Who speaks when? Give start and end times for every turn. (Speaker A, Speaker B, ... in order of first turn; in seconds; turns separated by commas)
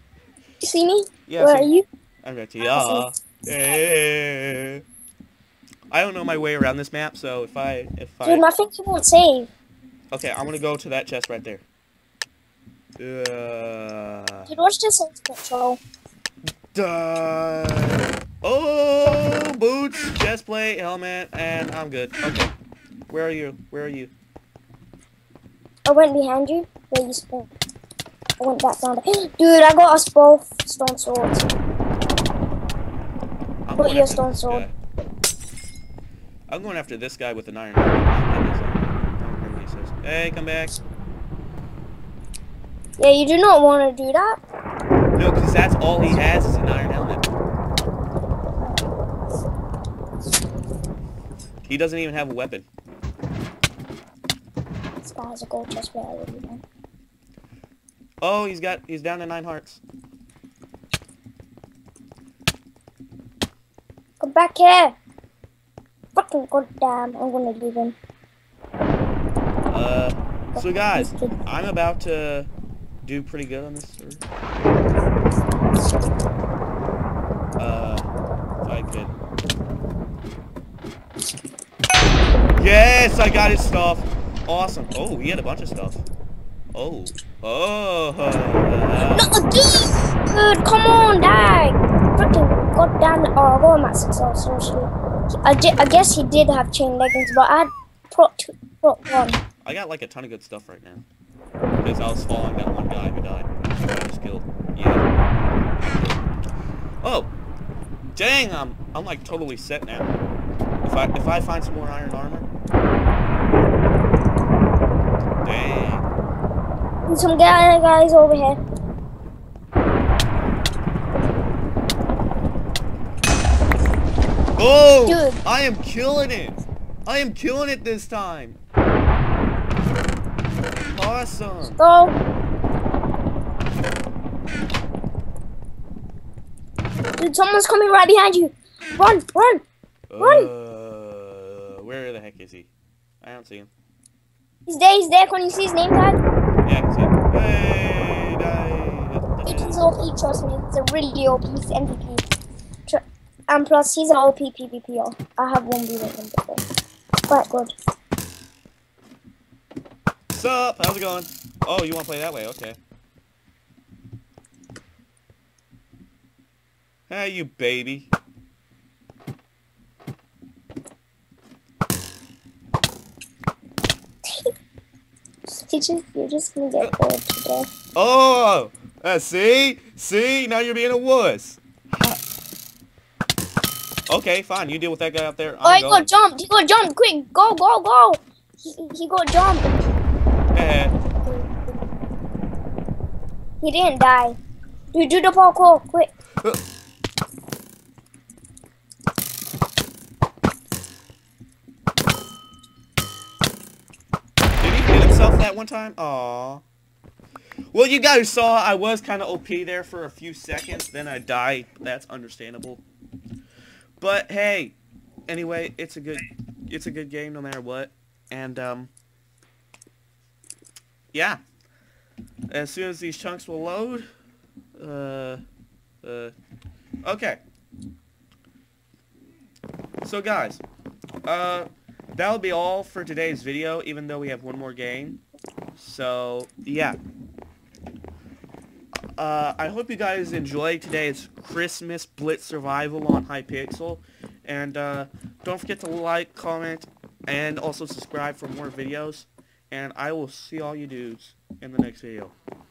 Speaker A: 0.6-1.8, Speaker B: 1.3-1.7, Speaker B: 2.2-4.8, Speaker A: 2.6-3.1, Speaker B: 5.9-8.4, Speaker A: 8.2-9.5, Speaker B: 10.1-11.6, Speaker B: 13.0-14.5, Speaker A: 14.5-15.8, Speaker B: 16.7-22.5, Speaker B: 23.1-24.1, Speaker A: 25.9-27.5, Speaker A: 28.4-31.5, Speaker B: 33.7-34.7, Speaker A: 33.8-34.6, Speaker B: 36.5-40.8, Speaker A: 43.0-44.4, Speaker B: 45.1-47.3, Speaker B: 51.6-52.6, Speaker A: 55.0-56.6, Speaker B: 58.2-59.8, Speaker A: 64.2-64.9, Speaker A: 66.1-68.0, Speaker B: 69.7-72.5, Speaker A: 70.5-71.3, Speaker B: 73.0-74.2, Speaker B: 77.6-78.1, Speaker B: 78.6-79.1, Speaker B: 82.6-86.0, Speaker B: 86.7-89.3, Speaker A: 89.1-94.9, Speaker A: 95.4-99.4, Speaker B: 99.6-101.0, Speaker B: 101.8-105.0, Speaker B: 105.8-106.2, Speaker B: 107.0-107.3, Speaker B: 108.2-110.1, Speaker B: 110.8-112.5, Speaker B: 115.4-116.1, Speaker A: 117.0-118.6, Speaker B: 124.6-128.6, Speaker A: 125.0-125.4, Speaker B: 130.9-131.8, Speaker A: 131.8-132.1, Speaker A: 137.2-139.6, Speaker B: 140.1-142.7, Speaker A: 140.2-140.5, Speaker B: 143.2-143.7, Speaker A: 144.7-146.2, Speaker B: 146.6-149.9, Speaker A: 149.4-152.2, Speaker A: 152.9-156.6, Speaker A: 157.3-157.7, Speaker B: 160.3-162.8, Speaker B: 167.1-168.1, Speaker A: 175.5-177.7, Speaker B: 177.9-182.2, Speaker B: 184.1-186.1, Speaker A: 185.6-189.8, Speaker B: 190.5-190.9, Speaker A: 193.6-194.4, Speaker A: 194.9-196.1, Speaker B: 204.6-206.6, Speaker B: 207.7-212.8, Speaker B: 214.0-214.8, Speaker B: 215.3-218.9, Speaker B: 221.1-221.4, Speaker B: 222.5-224.1, Speaker B: 224.8-225.4, Speaker B: 226.0-226.3, Speaker B: 227.0-227.4, Speaker B: 230.0-230.6, Speaker B: 231.2-235.2, Speaker B: 235.8-237.0, Speaker B: 239.2-252.3